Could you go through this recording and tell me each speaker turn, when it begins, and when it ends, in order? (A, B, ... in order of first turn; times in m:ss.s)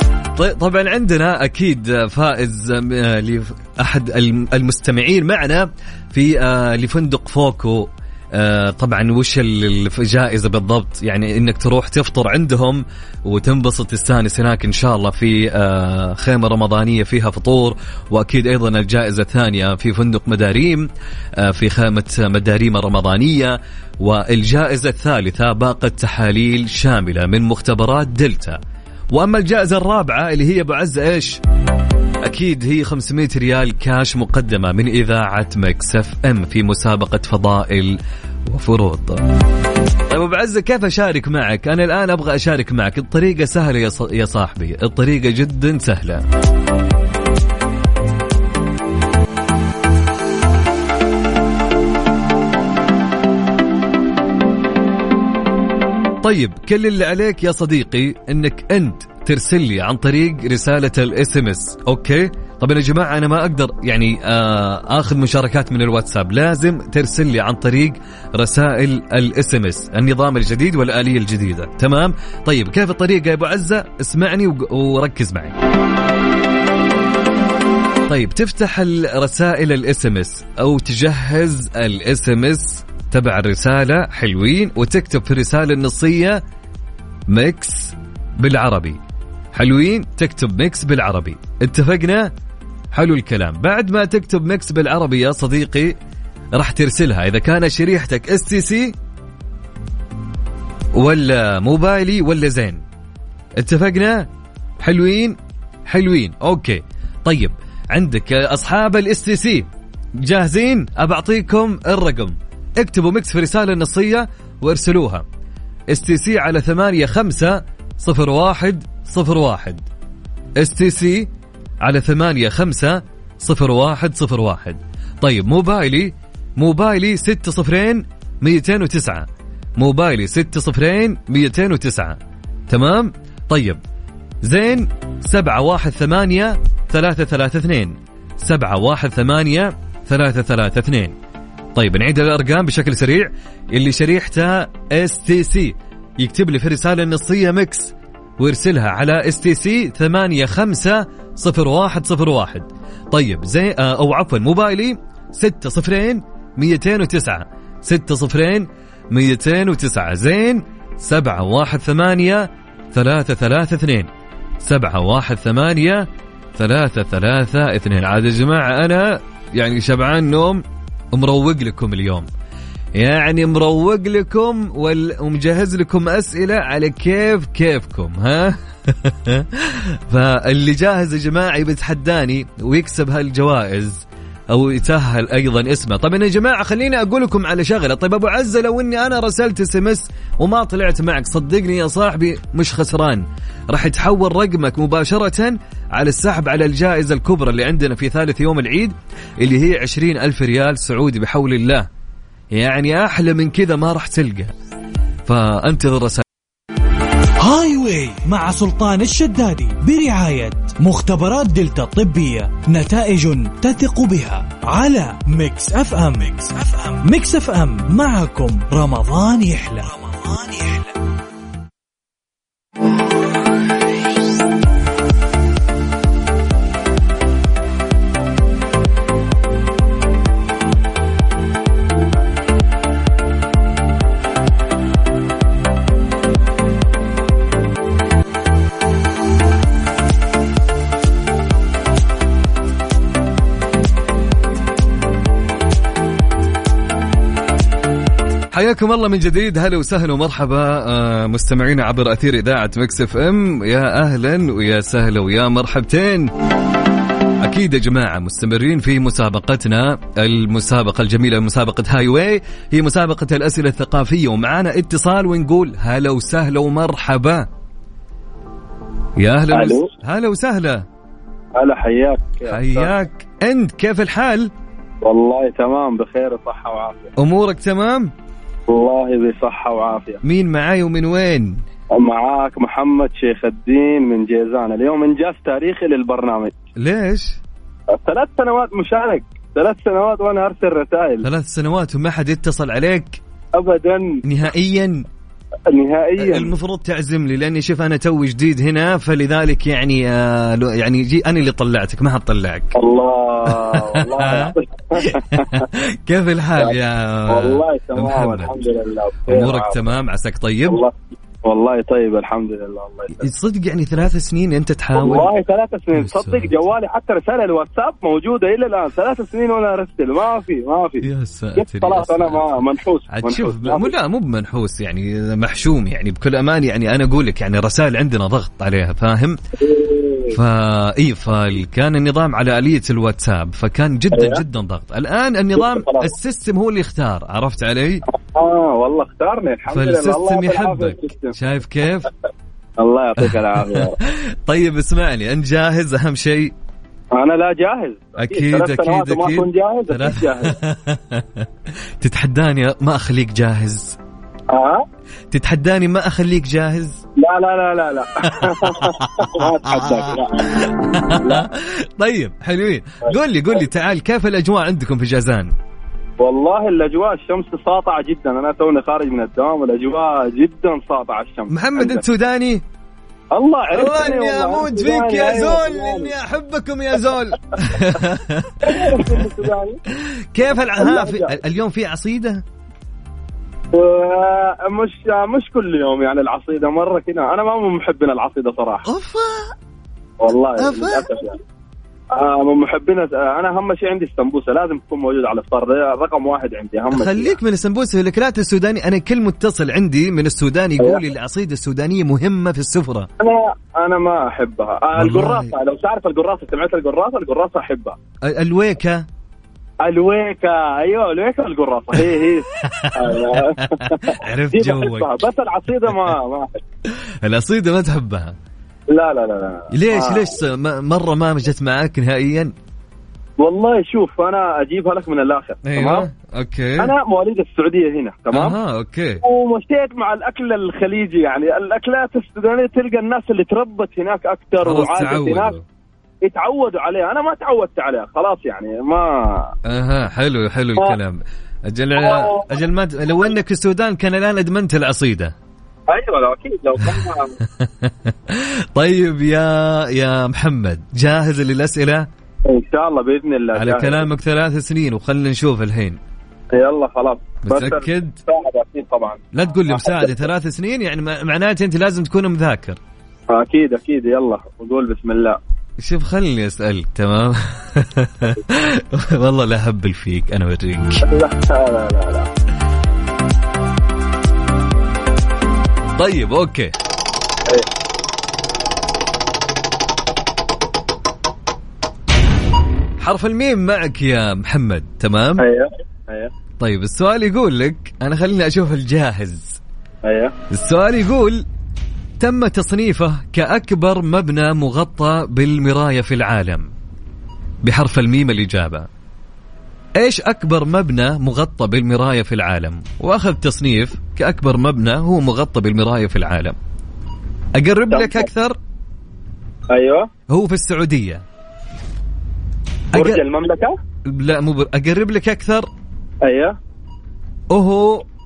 0:00.4-0:28.6 A
0:29.1-0:31.4 A
0:32.2-0:39.3 A
0:40.1-0:46.2 A
0:56.2-1:15.6 A
1:18.1-1:26.4 A
1:27.3-1:29.0 A
1:29.5-1:32.3 A
1:32.9-1:36.0 A
1:36.5-1:39.0 A
1:41.0-1:42.8 A
1:43.6-1:55.2 A
1:55.9-1:59.8 A
2:00.6-2:01.3 A
2:01.8-2:12.2 A
2:12.7-2:13.8 A
2:14.4-2:21.2 A
2:21.8-2:44.1 A
2:44.6-2:52.3 A
2:53.0-3:21.9 A
3:22.5-3:24.5 A
3:25.3-3:26.2 A
3:27.4-3:40.9 B
4:08.5-4:16.3 A
4:17.4-4:27.5 A
4:29.2-4:30.8 A
4:29.5-4:29.9 C
4:31.6-4:32.9 C
4:32.5-4:34.5 A
4:35.0-4:37.1 C
4:37.2-4:38.1 A
4:38.7-4:40.2 C
4:40.2-4:41.6 A
4:41.9-4:46.6 C
4:46.8-4:47.4 A
4:47.9-4:51.2 C
4:51.2-4:53.2 A
4:53.6-4:54.2 C
4:54.2-4:55.1 A
4:55.7-4:56.5 C
4:56.2-5:02.8 A
5:02.8-5:05.7 C
5:03.5-5:08.5 A
5:07.3-5:09.8 C
5:09.3-5:10.8 A
5:10.7-5:10.9 C
5:11.5-5:13.3 C
5:13.2-5:15.3 A
5:15.0-5:21.1 C
5:15.9-5:16.7 A
5:21.0-5:29.4 A
5:21.6-5:23.9 C
5:29.6-5:30.4 C
5:30.3-5:38.0 A
5:34.1-5:34.4 C
5:35.6-5:36.1 C
5:38.1-5:41.3 C
5:39.7-5:42.1 A
5:42.8-5:44.0 C
5:43.2-5:46.5 A
5:47.2-5:50.6 C
5:48.2-5:51.5 A
5:52.0-5:54.0 A
5:54.5-5:54.8 C
5:55.3-5:57.0 A
5:57.2-6:00.7 C
5:58.4-6:05.5 A
6:01.2-6:01.4 C
6:06.2-6:12.0 C
6:11.5-6:12.6 A
6:13.3-6:16.1 C
6:13.7-6:19.3 A
6:18.6-6:19.8 C
6:20.0-6:22.4 A
6:20.7-6:21.3 C
6:23.7-6:28.8 C
6:28.9-6:29.6 A
6:30.2-6:31.4 C
6:30.6-6:31.1 A
6:32.1-6:37.4 C
6:36.9-6:43.1 A
6:43.2-6:48.0 C
6:45.0-6:45.5 A
6:48.3-6:49.1 A
6:49.8-6:56.5 C
6:52.6-6:55.2 A
6:56.9-6:58.4 A
6:58.9-7:00.3 C
6:59.7-7:02.5 A
7:03.4-7:06.1 C
7:05.6-7:06.9 A
7:06.8-7:08.6 C
7:08.3-7:09.2 A
7:09.2-7:15.5 C
7:14.6-7:15.6 A
7:16.2-7:19.5 C
7:19.7-7:25.4 A
7:22.0-7:22.5 C
7:25.9-7:27.4 C
7:26.8-7:32.1 A
7:32.5-7:34.0 C
7:33.6-7:36.0 A
7:36.5-7:40.2 C
7:37.4-7:38.2 A
7:39.3-7:42.8 A
7:43.3-7:45.4 C
7:45.8-7:51.0 A
7:51.0-7:52.3 C
7:56.0-7:56.8 A
8:03.0-8:05.5 A
8:05.4-8:06.3 C
8:06.6-8:09.6 A
8:10.0-8:10.3 C
8:10.5-8:11.4 A
8:12.2-8:16.7 A
8:17.6-8:18.9 A
8:20.0-8:26.6 A
8:27.6-8:28.6 A
8:27.9-8:28.3 C
8:29.7-8:30.1 C
8:30.3-8:31.2 A
8:32.9-8:33.2 A
8:32.9-8:33.8 C
8:34.0-8:35.7 A
8:36.2-8:36.6 C
8:37.5-8:38.1 A